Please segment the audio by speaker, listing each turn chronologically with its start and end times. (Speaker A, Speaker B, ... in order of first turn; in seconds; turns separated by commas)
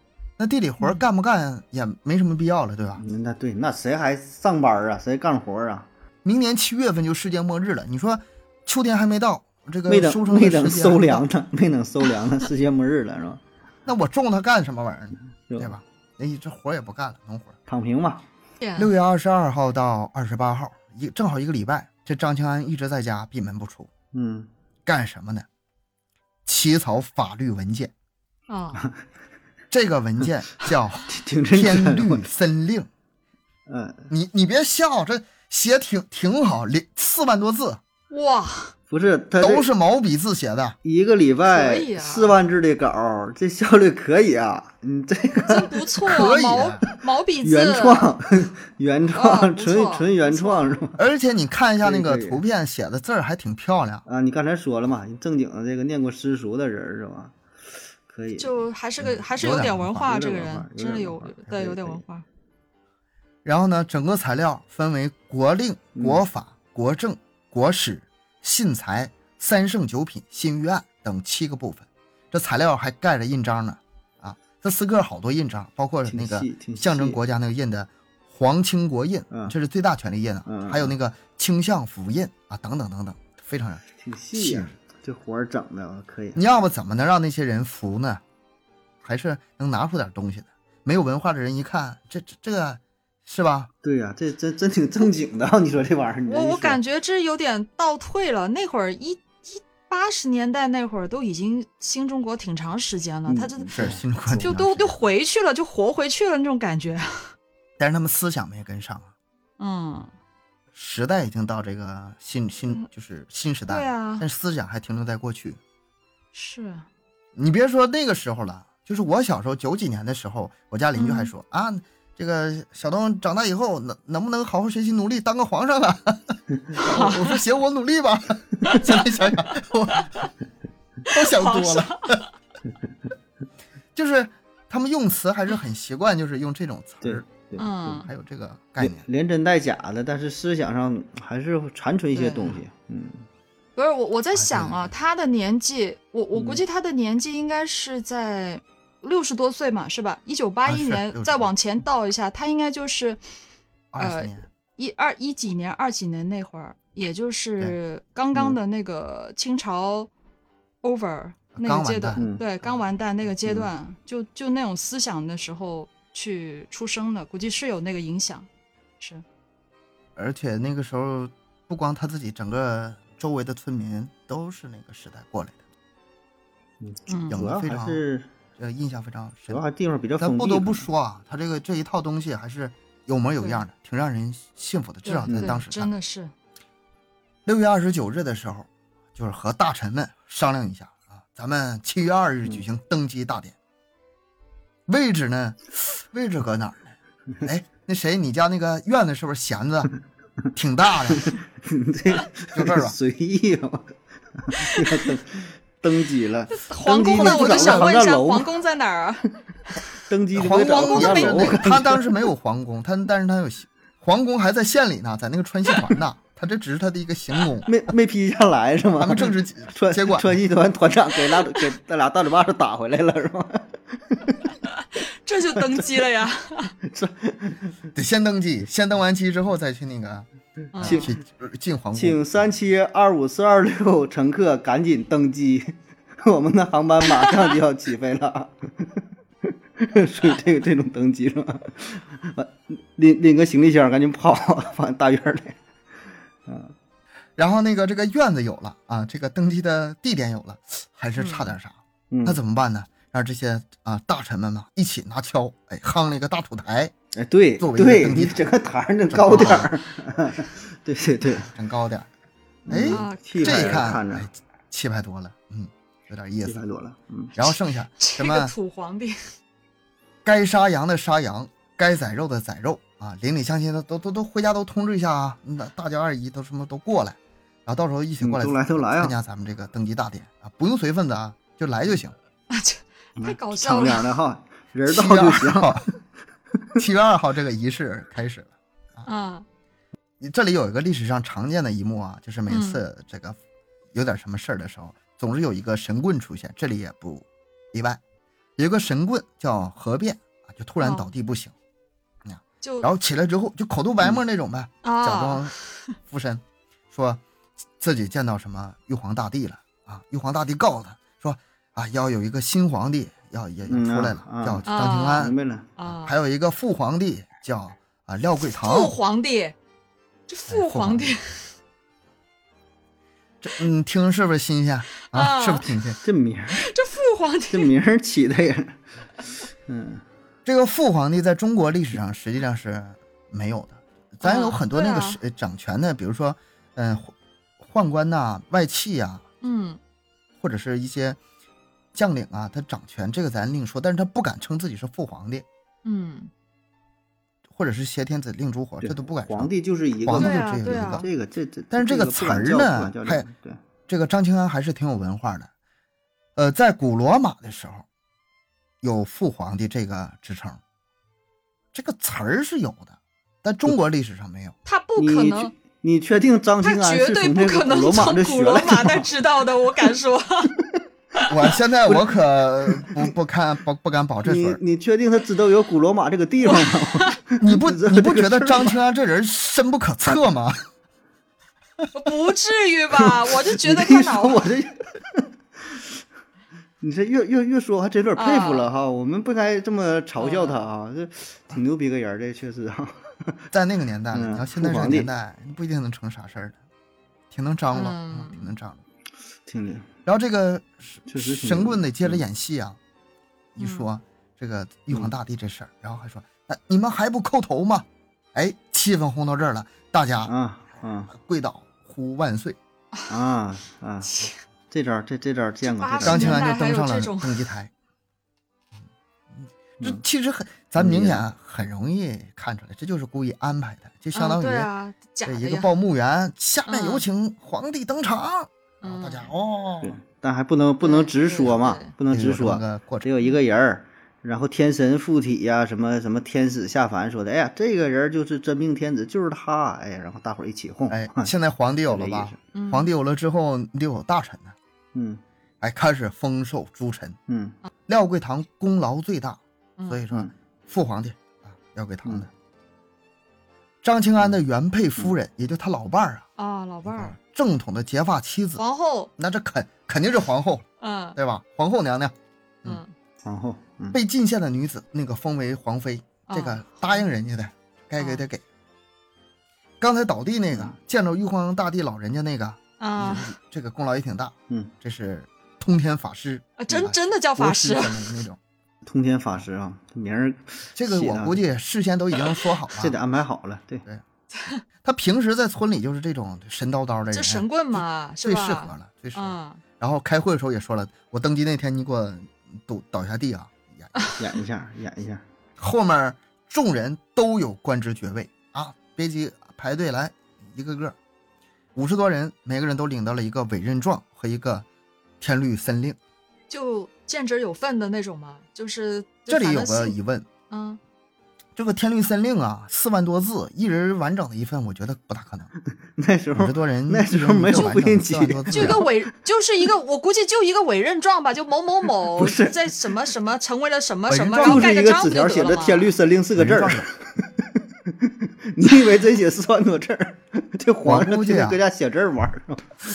Speaker A: 0.4-3.0, Speaker B: 3.0-5.9, Speaker A: 6.2-11.2, Speaker B: 9.9-13.4, Speaker A: 13.8-17.6, Speaker B: 15.5-15.8, Speaker B: 17.7-18.2, Speaker C: 18.6-18.9, Speaker A: 18.8-23.9, Speaker B: 24.1-24.5, Speaker A: 24.9-25.4, Speaker A: 26.4-27.9, Speaker C: 28.5-28.8, Speaker A: 29.7-32.9, Speaker B: 31.1-32.3, Speaker B: 33.7-34.1, Speaker A: 34.1-37.8, Speaker C: 38.1-38.7, Speaker B: 38.9-39.7, Speaker A: 39.4-40.8, Speaker B: 40.8-45.9, Speaker C: 41.5-42.3, Speaker C: 45.4-48.1, Speaker A: 46.0-46.8, Speaker B: 46.9-51.0, Speaker C: 49.1-50.8, Speaker A: 51.0-54.0, Speaker B: 51.8-52.4, Speaker B: 54.0-57.3, Speaker B: 58.1-58.6, Speaker C: 58.4-62.2, Speaker A: 59.0-60.1, Speaker B: 60.0-62.0, Speaker A: 63.4-83.8, Speaker B: 65.9-66.2, Speaker B: 76.0-77.2, Speaker B: 80.5-80.9, Speaker B: 84.0-86.4, Speaker A: 84.3-84.7, Speaker A: 86.3-88.2, Speaker A: 89.0-93.7, Speaker B: 93.8-96.8, Speaker C: 96.3-107.3, Speaker B: 103.2-104.0, Speaker A: 103.7-105.0, Speaker A: 107.8-109.1, Speaker C: 109.6-110.1, Speaker A: 110.7-115.6, Speaker C: 113.7-114.3, Speaker C: 116.3-116.8, Speaker A: 117.3-130.1, Speaker C: 120.9-121.3, Speaker C: 126.8-127.4, Speaker C: 128.7-128.9, Speaker C: 130.0-130.3, Speaker A: 131.1-132.2, Speaker C: 131.1-132.3, Speaker A: 133.9-139.1, Speaker B: 137.0-138.0, Speaker C: 137.6-138.1, Speaker B: 138.8-143.2, Speaker C: 142.1-142.6, Speaker C: 143.8-153.2, Speaker A: 144.3-144.9, Speaker B: 146.3-146.6, Speaker A: 150.7-151.5, Speaker A: 153.9-154.4, Speaker C: 154.0-160.1, Speaker C: 160.8-168.5, Speaker A: 161.5-162.7, Speaker B: 162.2-162.4, Speaker A: 170.2-175.6, Speaker B: 176.8-178.3, Speaker C: 177.1-177.4, Speaker A: 177.3-178.0, Speaker A: 178.6-179.6, Speaker B: 179.5-180.8, Speaker A: 180.2-185.9, Speaker C: 185.0-186.3, Speaker B: 185.3-185.6, Speaker A: 187.4-193.6, Speaker A: 194.9-199.9, Speaker A: 200.5-201.3, Speaker B: 201.1-208.5, Speaker A: 202.5-202.9, Speaker C: 204.6-205.1, Speaker C: 206.5-209.8, Speaker A: 207.2-207.9, Speaker B: 210.0-212.1, Speaker A: 210.3-217.7, Speaker C: 210.5-211.6, Speaker B: 217.7-224.5, Speaker A: 219.0-220.3, Speaker C: 224.8-226.8, Speaker B: 226.8-227.7, Speaker A: 227.9-230.3, Speaker C: 230.7-231.1, Speaker B: 230.8-231.1, Speaker A: 230.8-232.5, Speaker B: 231.9-239.0, Speaker B: 239.8-245.6, Speaker B: 246.4-246.7, Speaker A: 247.4-256.9, Speaker C: 251.2-251.5, Speaker B: 252.1-252.4, Speaker B: 257.1-261.5, Speaker A: 257.6-258.4, Speaker A: 259.1-259.7, Speaker A: 261.5-262.1, Speaker B: 262.7-264.3, Speaker A: 262.7-266.6, Speaker C: 262.7-263.9, Speaker B: 266.4-267.3, Speaker A: 267.4-268.5, Speaker C: 267.4-269.2, Speaker A: 270.2-282.1, Speaker B: 278.2-279.1, Speaker C: 282.5-284.1, Speaker B: 283.2-285.9, Speaker A: 284.9-285.9, Speaker A: 286.8-289.1, Speaker C: 289.1-289.4, Speaker A: 290.2-293.4, Speaker C: 292.5-292.8, Speaker A: 293.9-298.0, Speaker A: 298.6-301.5, Speaker C: 300.8-301.1, Speaker A: 302.2-305.5, Speaker C: 302.6-302.9, Speaker C: 304.8-305.6, Speaker A: 306.1-307.2, Speaker A: 307.8-318.9, Speaker B: 313.7-315.7, Speaker C: 314.7-316.1, Speaker C: 318.5-319.5, Speaker C: 320.3-321.5, Speaker A: 320.5-321.1, Speaker A: 323.4-326.0, Speaker C: 325.1-325.8, Speaker B: 326.0-326.6, Speaker C: 326.5-327.7, Speaker B: 327.5-328.8, Speaker B: 329.6-330.0, Speaker A: 330.4-339.2, Speaker C: 334.2-335.2, Speaker C: 339.4-339.8, Speaker A: 340.4-341.2, Speaker A: 341.9-345.4, Speaker C: 345.8-346.3, Speaker A: 347.5-351.1, Speaker B: 348.8-353.6, Speaker C: 350.1-351.1, Speaker A: 351.7-353.2, Speaker A: 353.9-355.5, Speaker A: 356.4-357.9, Speaker A: 358.8-360.6, Speaker A: 361.7-364.6, Speaker C: 364.6-365.5, Speaker B: 365.0-369.1, Speaker C: 366.6-370.5, Speaker A: 371.3-374.6, Speaker B: 372.6-372.9, Speaker B: 374.2-378.8, Speaker C: 376.5-377.1, Speaker A: 377.4-380.6, Speaker C: 381.9-384.5, Speaker B: 383.0-385.8, Speaker B: 386.8-393.4, Speaker C: 388.2-388.7, Speaker C: 390.2-390.5, Speaker A: 393.5-396.6, Speaker B: 394.1-395.1, Speaker A: 397.3-398.8, Speaker C: 397.7-398.5, Speaker B: 399.5-399.9, Speaker A: 400.1-402.8, Speaker B: 401.1-402.2, Speaker A: 403.5-410.3, Speaker C: 403.6-403.9, Speaker B: 410.2-411.1, Speaker A: 411.1-412.6, Speaker B: 413.1-416.5, Speaker C: 414.1-414.3, Speaker C: 415.6-417.4, Speaker A: 416.0-417.7, Speaker A: 419.4-424.7, Speaker B: 420.8-421.2, Speaker C: 424.1-425.7, Speaker A: 425.2-430.0, Speaker C: 426.7-427.0, Speaker C: 428.8-429.3, Speaker B: 429.8-441.3, Speaker C: 430.8-431.9, Speaker A: 432.1-433.1, Speaker A: 440.9-444.5, Speaker B: 441.9-442.4, Speaker C: 442.5-442.9, Speaker B: 444.9-445.2, Speaker A: 445.6-447.2, Speaker B: 447.3-447.6, Speaker A: 447.9-452.3, Speaker C: 449.8-450.0, Speaker A: 453.8-456.2, Speaker C: 456.4-457.1, Speaker A: 456.9-458.6, Speaker C: 458.6-459.1, Speaker A: 459.2-460.6, Speaker C: 460.8-461.2, Speaker A: 461.1-462.8, Speaker C: 462.6-462.9, Speaker B: 463.2-464.0, Speaker A: 463.9-468.4, Speaker C: 466.3-467.1, Speaker C: 468.0-468.2, Speaker A: 469.8-478.4, Speaker C: 472.8-473.3, Speaker C: 476.6-478.2, Speaker B: 478.8-481.4, Speaker A: 480.8-482.9, Speaker B: 482.7-483.8, Speaker C: 484.3-484.6, Speaker A: 484.8-494.1, Speaker C: 487.1-489.6, Speaker B: 494.1-495.2, Speaker A: 495.6-500.9, Speaker A: 501.7-504.6, Speaker A: 505.2-506.0, Speaker C: 506.5-509.9, Speaker A: 509.3-510.3, Speaker C: 510.5-510.8, Speaker A: 511.6-515.5, Speaker B: 516.0-518.9, Speaker A: 516.4-518.9, Speaker C: 517.5-517.8, Speaker C: 518.5-525.9, Speaker B: 522.1-522.6, Speaker A: 524.1-524.7, Speaker B: 524.4-532.7, Speaker A: 526.4-526.9, Speaker A: 530.8-531.6